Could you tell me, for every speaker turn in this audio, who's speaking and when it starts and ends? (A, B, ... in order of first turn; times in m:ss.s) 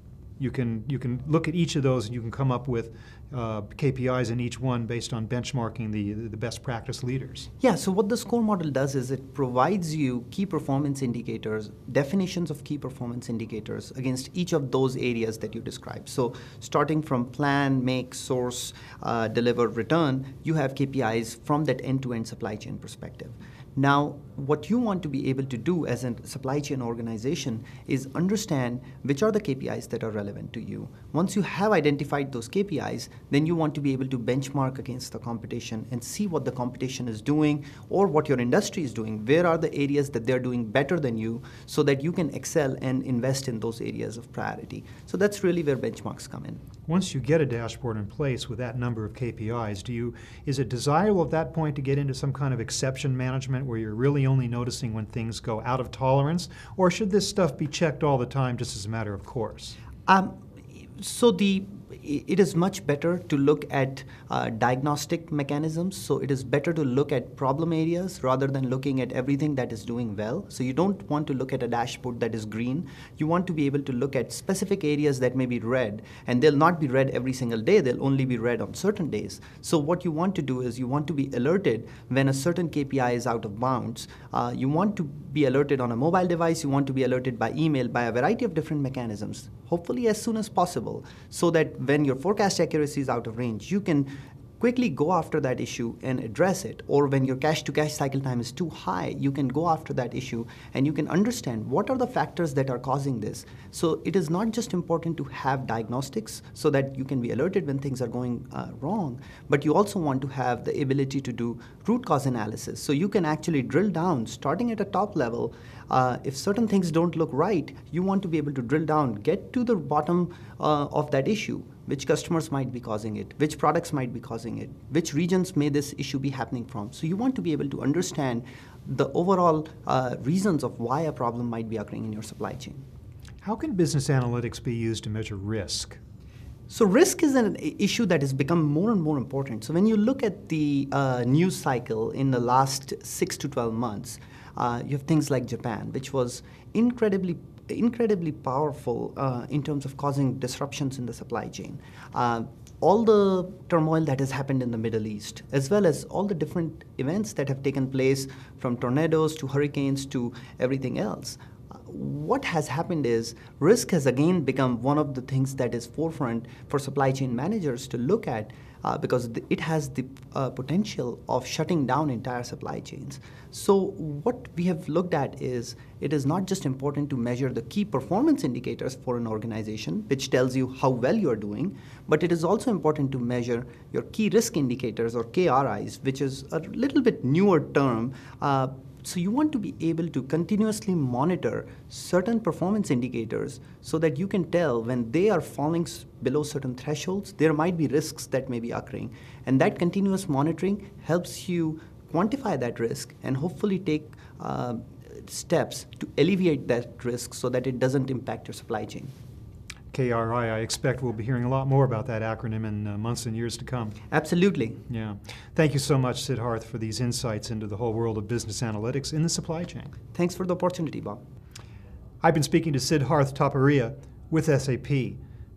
0:00.4-0:07.5 A
0:07.6-0:46.6 B
0:46.9-0:59.8 A
1:00.1-2:12.8 B
2:13.4-2:16.0 A
2:16.7-3:29.1 B
3:29.9-3:34.0 A
3:34.1-3:34.8 B
3:34.9-3:39.9 A
3:40.2-3:41.2 B
3:42.2-3:45.2 A